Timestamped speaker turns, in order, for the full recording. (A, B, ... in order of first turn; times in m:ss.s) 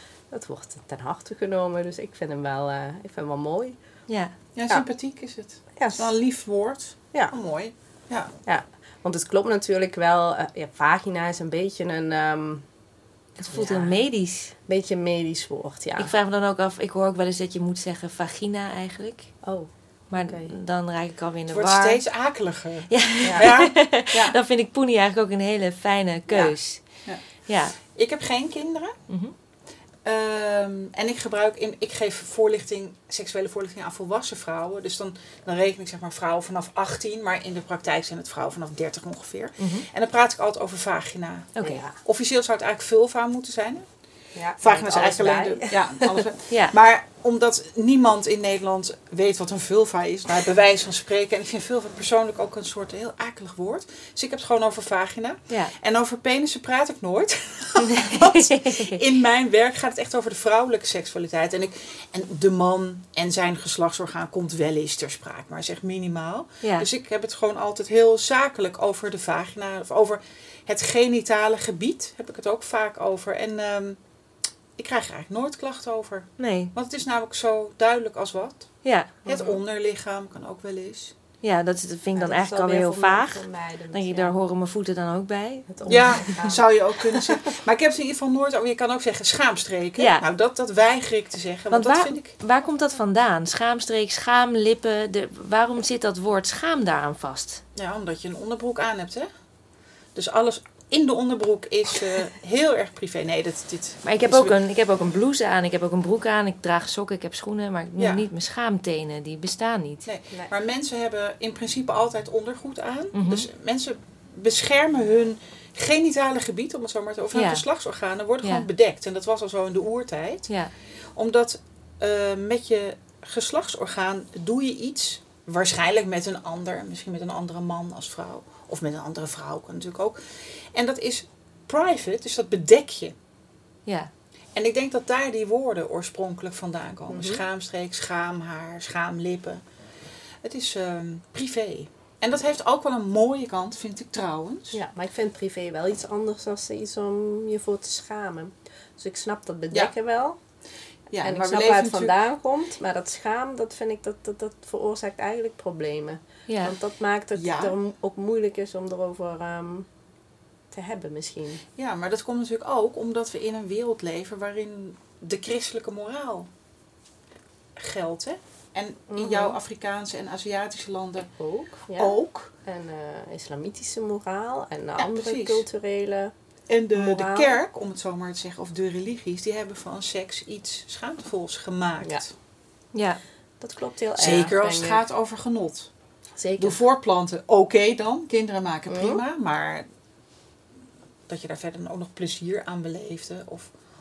0:00.3-0:03.8 A
0:04.1-0:04.3 B
0:04.6-0:08.3 C
0:05.7-0:06.1 A
0:08.4-0:12.7 A
0:13.4-0:14.5 B
0:13.5-0:14.0 A
0:14.7-0:16.1 A
0:16.0-0:19.3 B
0:19.4-0:20.5 A
0:20.1-0:22.0 B
0:21.5-0:24.4 C
0:22.9-0:26.9 B
0:27.4-0:27.8 B
0:27.8-0:29.0 C
0:29.1-0:29.3 B
0:30.0-0:43.8 C
0:39.6-0:39.9 B
0:41.6-0:42.0 A
0:44.3-0:46.2 A
0:44.6-1:14.0 C
0:46.5-0:46.7 B
0:57.8-0:59.0 B
1:14.8-1:21.1 C
1:16.4-1:16.7 B
1:18.8-1:19.1 B
1:19.2-1:19.6 A
1:21.4-1:26.1 B
1:22.2-1:24.3 A
1:25.7-1:26.6 A
1:25.9-1:32.3 C
1:30.0-1:30.2 B
1:31.7-1:37.6 B
1:37.8-1:39.3 C
1:40.1-1:44.5 C
1:44.0-1:50.1 B
1:48.0-1:48.2 C
1:50.0-2:00.5 C
1:53.1-1:53.5 B
1:57.3-1:57.6 B
2:01.2-2:13.1 C
2:14.5-2:19.6 C
2:17.1-2:17.4 A
2:20.4-2:24.8 C
2:24.7-2:30.4 A
2:31.1-2:32.2 C
2:31.2-2:39.9 A
2:36.5-2:36.7 B
2:37.4-2:37.7 C
2:40.7-2:41.6 A
2:41.8-2:46.5 C
2:47.8-2:51.3 C
2:49.1-2:49.6 A
2:51.4-2:56.3 A
2:52.0-2:52.5 C
2:55.0-2:55.6 C
2:56.7-3:02.3 C
2:56.9-2:57.6 A
3:02.9-3:03.2 B
3:03.6-3:05.0 A
3:04.2-3:05.9 C
3:06.4-3:06.8 A
3:06.6-3:09.9 C
3:08.9-3:09.2 A
3:11.3-3:13.7 C